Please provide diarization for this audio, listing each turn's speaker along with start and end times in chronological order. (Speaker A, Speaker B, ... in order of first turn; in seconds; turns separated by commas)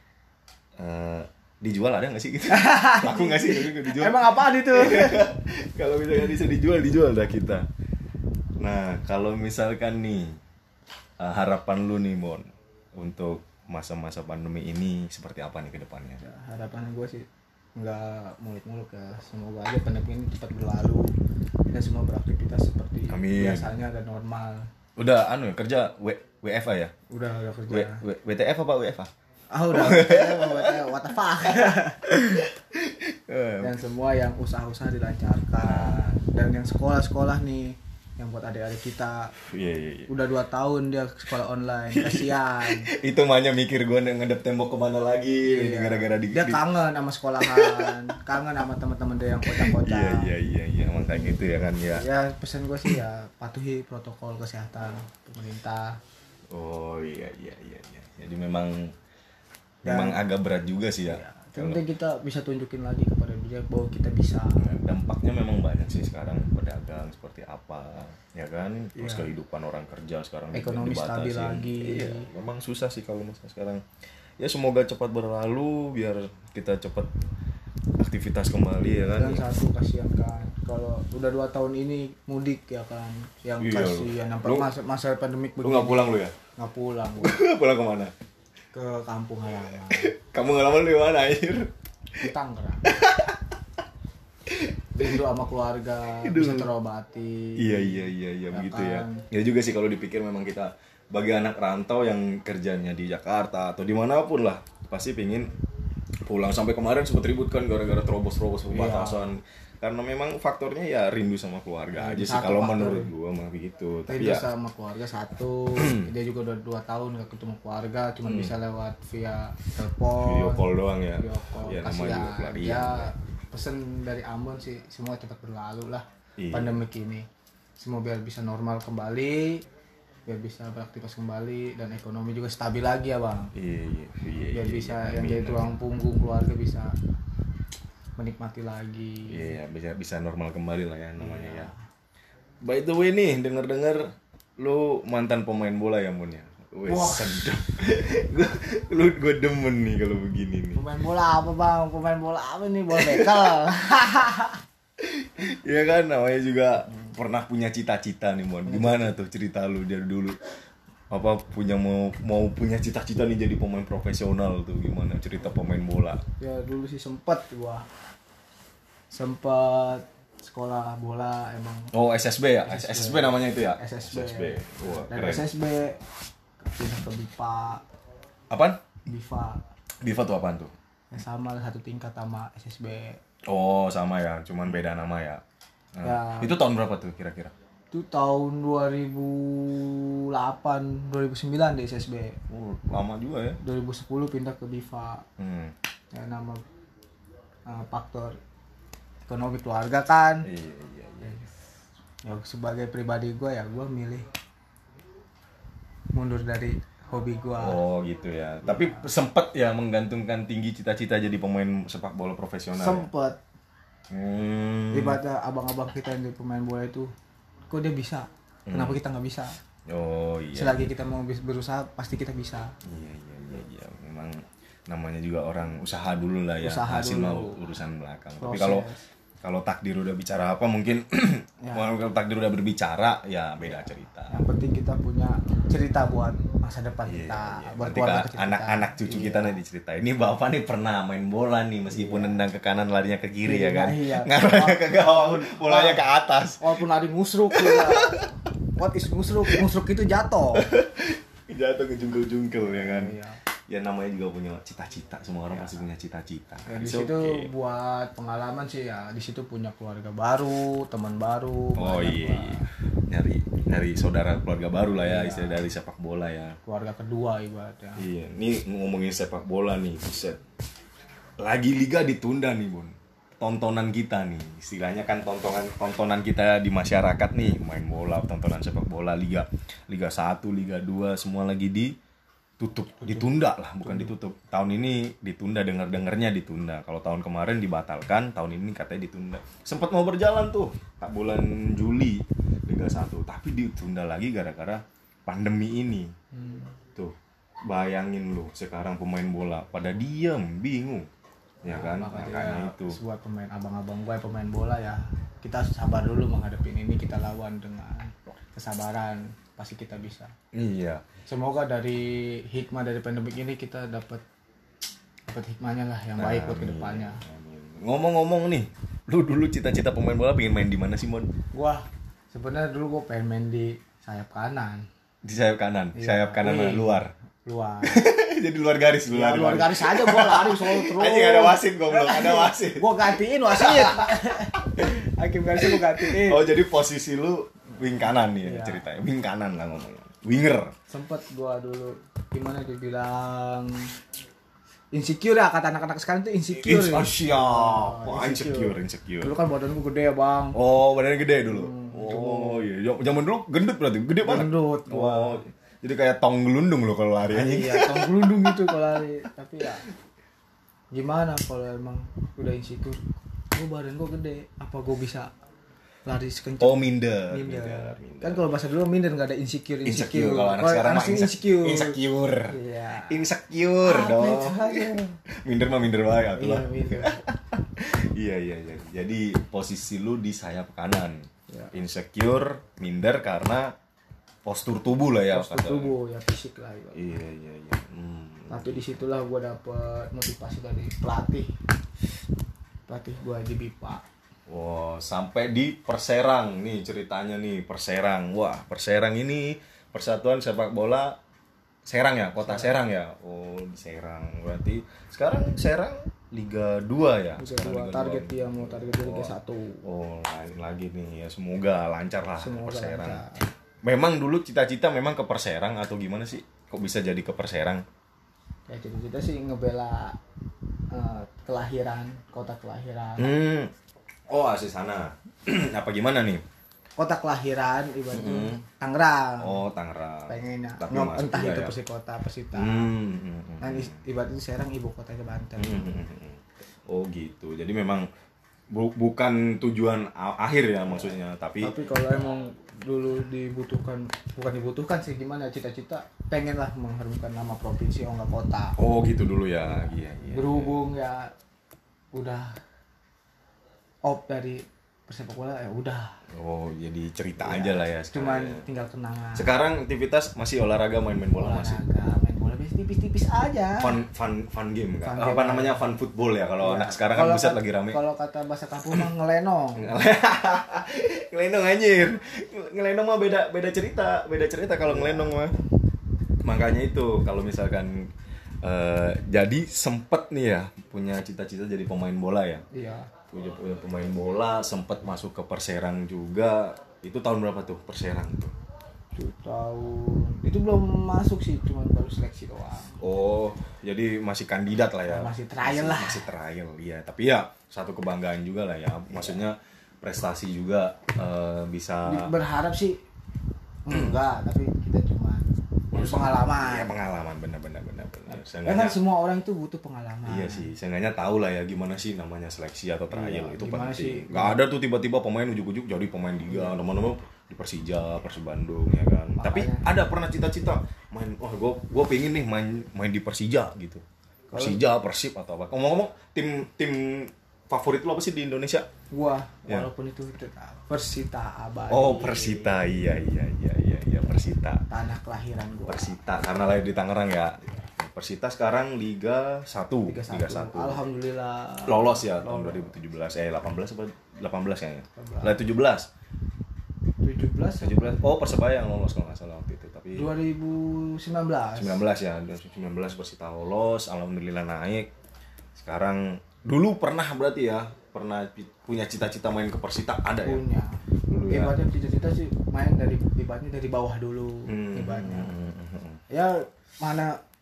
Speaker A: 0.8-7.7, Speaker B: 2.5-5.3, Speaker A: 8.6-10.4, Speaker A: 11.2-16.2, Speaker B: 16.2-21.1, Speaker B: 21.7-24.7, Speaker A: 23.1-23.8, Speaker A: 25.0-26.9, Speaker B: 27.1-28.0, Speaker A: 27.7-29.1, Speaker B: 29.5-32.5, Speaker A: 29.7-30.8, Speaker A: 31.4-33.7, Speaker B: 33.6-39.4, Speaker A: 35.6-36.2, Speaker A: 39.4-40.1, Speaker B: 40.1-42.9, Speaker A: 41.9-46.6, Speaker B: 45.4-50.3, Speaker A: 47.4-47.9, Speaker A: 49.5-52.0, Speaker B: 51.1-51.4, Speaker B: 51.9-56.0, Speaker A: 56.5-58.9, Speaker A: 59.8-61.8, Speaker B: 59.9-60.2, Speaker B: 61.1-64.6, Speaker A: 64.6-73.8, Speaker B: 69.0-69.3, Speaker B: 70.5-72.3, Speaker A: 74.4-77.1, Speaker A: 78.0-79.5, Speaker B: 79.1-87.4, Speaker A: 83.6-84.7, Speaker A: 85.6-86.3, Speaker A: 87.2-88.1, Speaker B: 88.7-90.1, Speaker A: 89.9-91.7, Speaker B: 92.2-93.0, Speaker A: 92.8-93.5, Speaker A: 94.5-95.1, Speaker B: 95.0-99.3, Speaker A: 96.2-96.7, Speaker A: 97.6-105.5, Speaker A: 106.2-114.5, Speaker B: 108.7-109.3, Speaker B: 112.0-113.1, Speaker B: 114.1-120.7, Speaker A: 115.8-116.1, Speaker A: 118.3-118.5, Speaker A: 120.2-123.1, Speaker B: 121.2-127.3, Speaker A: 126.4-126.8, Speaker B: 127.8-129.6, Speaker B: 130.3-133.5, Speaker A: 133.5-135.8, Speaker B: 134.5-136.9, Speaker B: 138.2-139.5, Speaker A: 139.3-141.7, Speaker B: 141.2-141.8, Speaker A: 142.6-150.8, Speaker B: 146.9-147.5, Speaker B: 150.8-154.6, Speaker A: 152.9-153.5, Speaker A: 155.0-160.4, Speaker B: 158.7-159.1, Speaker A: 161.1-166.2, Speaker B: 166.4-167.9, Speaker B: 169.1-171.9, Speaker A: 171.9-175.5, Speaker B: 172.6-176.0, Speaker B: 176.8-177.8, Speaker A: 178.5-178.8, Speaker B: 179.1-179.6, Speaker A: 180.0-180.7, Speaker B: 181.1-183.2, Speaker A: 183.5-185.4, Speaker A: 186.0-187.5, Speaker B: 186.0-186.6, Speaker B: 187.9-192.4, Speaker A: 192.5-193.6, Speaker B: 193.6-195.3, Speaker A: 195.4-195.7, Speaker B: 196.1-196.6, Speaker B: 197.7-198.4, Speaker B: 199.3-200.5, Speaker A: 200.4-201.5, Speaker B: 202.3-204.3, Speaker B: 206.1-207.8, Speaker A: 207.6-213.1, Speaker B: 208.7-209.0, Speaker B: 212.8-213.4, Speaker A: 214.1-215.2, Speaker B: 214.9-217.1, Speaker B: 217.7-219.6, Speaker A: 218.7-219.0, Speaker A: 219.9-220.9, Speaker B: 220.5-222.7, Speaker A: 222.8-228.9, Speaker B: 226.6-227.6, Speaker B: 228.4-229.0, Speaker A: 229.4-234.4, Speaker B: 231.6-231.9, Speaker B: 234.3-239.6, Speaker A: 237.1-246.8, Speaker B: 241.9-242.4, Speaker B: 243.4-246.0, Speaker B: 246.6-250.7, Speaker A: 247.5-248.3, Speaker A: 250.6-253.2, Speaker B: 252.7-253.4, Speaker A: 253.7-257.5, Speaker B: 256.7-262.7, Speaker A: 261.8-266.6, Speaker B: 265.0-265.7, Speaker B: 266.6-268.1, Speaker A: 268.0-270.4, Speaker A: 271.4-281.9, Speaker A: 282.6-296.1, Speaker B: 283.0-284.1, Speaker B: 296.3-296.7, Speaker A: 297.7-301.1, Speaker A: 301.6-303.0, Speaker B: 301.7-310.3, Speaker A: 310.5-311.1, Speaker B: 311.3-314.2, Speaker B: 315.3-317.2, Speaker A: 316.2-321.3, Speaker B: 321.5-324.9, Speaker A: 325.2-327.1, Speaker B: 325.9-328.1, Speaker A: 327.8-334.9, Speaker B: 329.1-336.5, Speaker A: 335.6-340.7, Speaker B: 338.4-338.9, Speaker B: 340.9-343.9, Speaker B: 344.9-350.6, Speaker A: 346.6-349.3, Speaker A: 350.6-358.8, Speaker B: 351.5-352.6, Speaker B: 354.2-355.4, Speaker B: 357.3-359.9, Speaker B: 360.9-365.3, Speaker B: 366.1-373.2, Speaker A: 366.6-368.5, Speaker A: 369.9-383.7, Speaker B: 373.8-375.2, Speaker B: 376.4-377.3, Speaker A: 384.4-385.9, Speaker B: 385.3-387.0, Speaker A: 386.9-389.0, Speaker B: 388.5-391.5, Speaker B: 392.9-394.1, Speaker A: 394.5-401.2, Speaker A: 401.9-413.2, Speaker B: 402.4-402.8, Speaker B: 407.4-409.9, Speaker B: 412.4-413.5, Speaker A: 413.8-417.8, Speaker B: 418.7-420.2, Speaker B: 420.9-423.4, Speaker A: 423.2-423.7, Speaker A: 424.3-426.4, Speaker B: 427.0-429.6, Speaker A: 428.1-428.6, Speaker A: 429.4-431.8, Speaker B: 430.3-432.9, Speaker A: 432.5-434.0, Speaker B: 433.6-435.9, Speaker A: 435.6-438.1, Speaker A: 438.7-441.7, Speaker B: 440.9-448.8, Speaker A: 448.8-450.9, Speaker B: 449.7-451.3, Speaker B: 452.1-452.6, Speaker B: 454.0-456.2, Speaker A: 456.3-458.6, Speaker B: 457.4-459.5, Speaker A: 459.4-461.8, Speaker B: 461.4-464.0, Speaker A: 463.8-468.0, Speaker B: 465.0-465.8, Speaker B: 466.6-469.9, Speaker A: 469.8-475.6, Speaker B: 474.9-475.5, Speaker A: 476.4-478.1, Speaker A: 478.6-482.6, Speaker B: 482.7-483.1, Speaker A: 483.3-488.5, Speaker B: 489.2-493.0, Speaker A: 493.0-502.3, Speaker B: 495.1-496.3, Speaker B: 502.1-503.0, Speaker B: 503.9-506.9, Speaker A: 503.9-504.2, Speaker A: 505.9-509.0, Speaker B: 508.3-510.7, Speaker A: 510.3-528.9, Speaker B: 513.1-514.6, Speaker B: 516.5-516.8, Speaker B: 519.4-519.9, Speaker B: 524.5-524.8, Speaker B: 529.1-532.9, Speaker A: 531.9-534.8, Speaker B: 534.9-536.2, Speaker A: 535.9-541.0, Speaker B: 540.1-543.0, Speaker A: 541.9-546.1, Speaker B: 545.2-545.6, Speaker B: 547.2-548.2, Speaker A: 547.8-550.3, Speaker B: 550.1-552.0, Speaker A: 551.8-555.1, Speaker A: 555.8-560.6, Speaker B: 560.4-565.5, Speaker A: 561.3-561.8, Speaker A: 564.7-566.2, Speaker B: 566.3-567.4